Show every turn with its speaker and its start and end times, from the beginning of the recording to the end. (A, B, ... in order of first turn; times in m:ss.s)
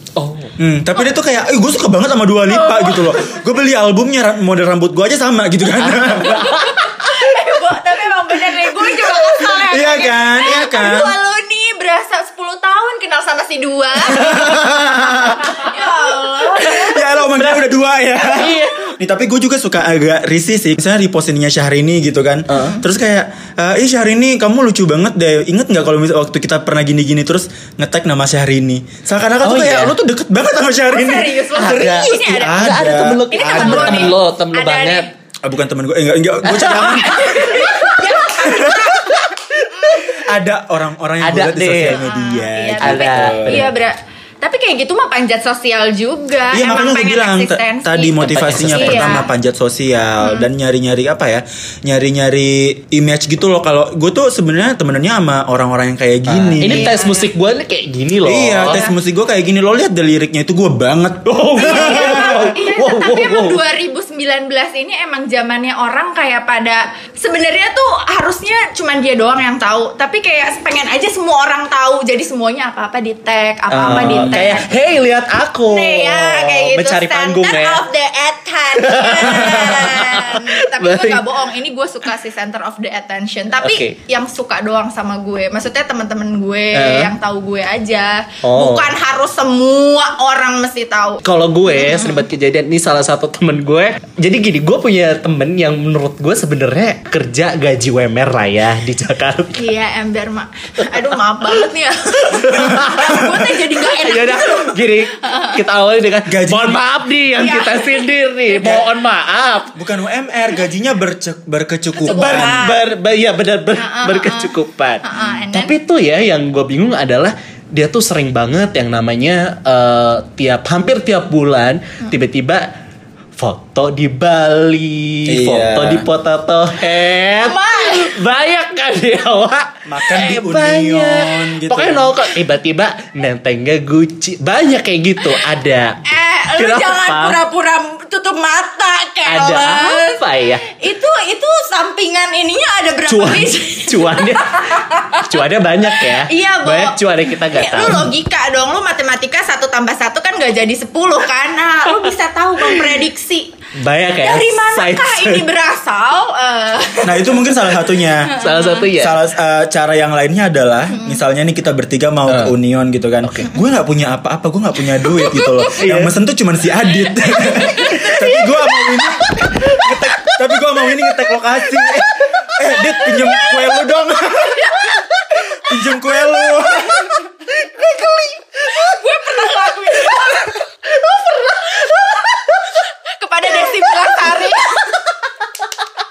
0:00.2-0:00.5 A
0:00.6-0:06.5 B
0:02.5-0:03.3 C
0:05.8-0:06.8 A
0:06.2-0:14.4 C
0:09.4-0:11.1 B
0:14.1-0:15.6 B
0:15.2-0:17.1 C
0:16.6-0:17.6 A
0:16.6-0:34.2 B
0:18.3-0:18.9 A
0:22.5-0:22.8 A
0:22.6-0:22.8 C
0:29.4-0:29.9 A
0:30.9-0:32.8 C
0:31.6-0:35.1 A
0:33.3-0:35.1 C
0:35.4-0:39.2 B
0:36.4-0:38.2 A
0:36.9-0:40.2 C
0:40.0-0:43.7 B
0:41.2-0:42.0 A
0:41.9-0:49.3 C
0:42.8-0:43.7 A
0:46.5-0:57.0 B
0:48.2-0:49.2 A
0:50.2-0:50.5 C
0:56.3-0:58.8 A
0:56.6-0:57.3 C
0:58.2-1:02.4 B
0:58.7-0:59.0 C
1:01.2-1:03.6 A
1:01.6-1:14.7 C
1:13.7-1:17.8 A
1:13.9-1:14.6 B
1:15.7-1:32.3 C
1:18.8-1:21.3 A
1:19.3-1:19.8 B
1:23.6-1:24.0 A
1:26.7-1:27.1 A
1:28.4-1:28.9 A
1:31.2-1:39.6 A
1:39.6-1:45.6 C
1:42.3-1:49.7 A
1:46.3-1:46.8 B
1:47.4-1:48.8 C
1:49.8-1:52.6 B
1:52.0-1:52.9 C
1:52.0-2:02.7 A
1:53.8-1:55.8 C
2:03.4-2:16.0 A
2:05.3-2:06.1 B
2:07.4-2:08.1 C
2:09.9-2:12.1 B
2:16.1-2:33.6 C
2:16.6-2:17.4 A
2:19.3-2:20.6 A
2:23.1-2:28.1 A
2:33.8-2:35.5 A
2:34.2-2:38.9 C
2:37.0-2:38.4 B
2:38.4-2:39.2 A
2:38.9-2:54.8 B
2:40.9-2:41.2 C
2:42.3-2:42.5 A
2:43.2-2:43.5 A
2:45.0-2:45.8 C
2:45.8-2:46.1 A
2:47.2-2:48.3 C
2:47.8-2:50.6 A
2:51.8-2:52.6 A
2:53.3-2:57.2 C
2:55.4-2:57.3 B
2:57.6-2:59.0 A
2:58.7-3:00.8 C
3:00.1-3:02.7 A
3:01.7-3:04.8 C
3:03.6-3:05.1 A